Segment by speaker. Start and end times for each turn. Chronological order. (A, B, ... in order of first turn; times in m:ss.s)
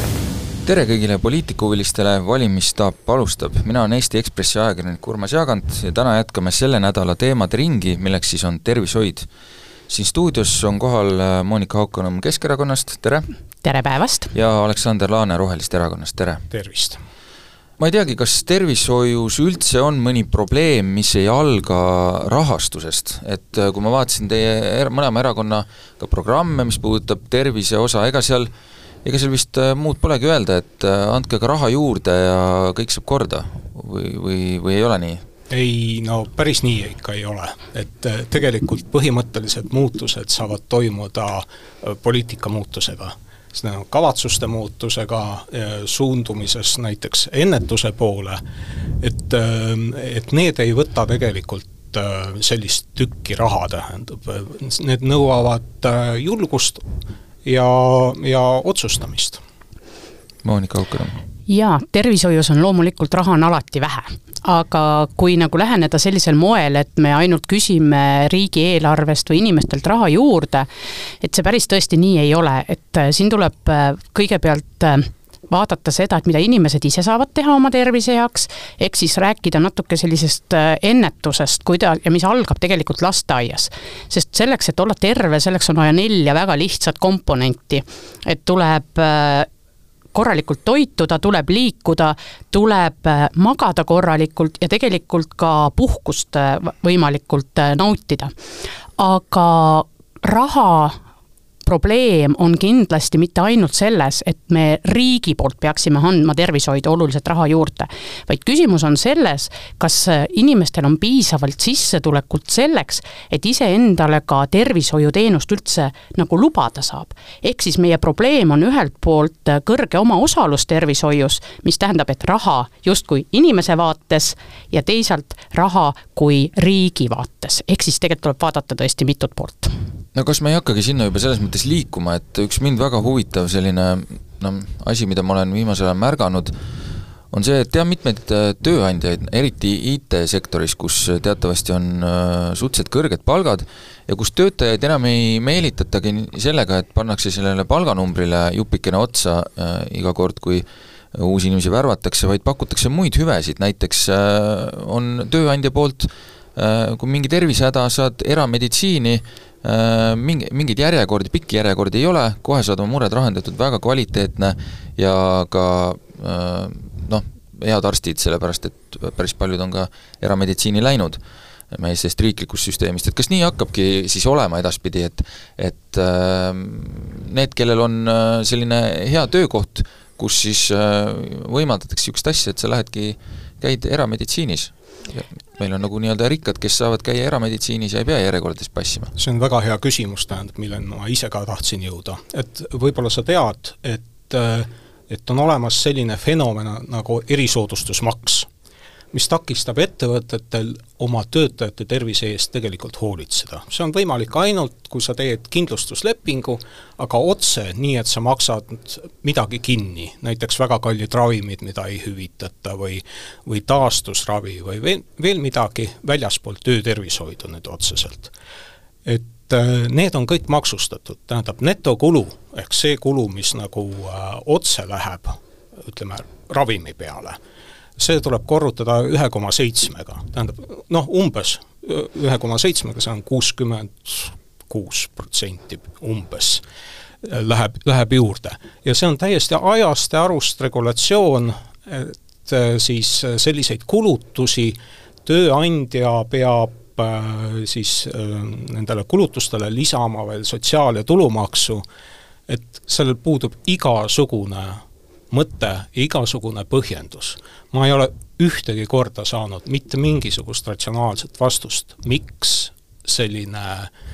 0:00.6-0:09.3 A
0:09.9-0:13.3 A
0:13.6-0:14.3 B
0:14.3-0:16.4 A
0:16.5-0:17.0 C
0:17.8-0:28.5 A
0:29.0-0:35.2 A
0:35.5-0:48.4 C
0:49.0-0:56.9 C
0:57.4-0:59.4 C
1:00.4-1:01.2 A
1:01.5-1:10.7 B
1:11.2-1:29.5 B
1:30.1-1:38.3 B
1:39.0-1:41.0 B
1:41.6-2:09.7 B
2:10.2-2:16.5 A
2:17.3-2:51.2 A
2:51.7-3:09.1 A
3:09.2-3:18.5 C
3:19.1-3:38.3 C
3:39.0-3:47.4 C
3:48.0-3:56.6 C
3:57.2-4:11.8 C
4:12.5-4:23.9 C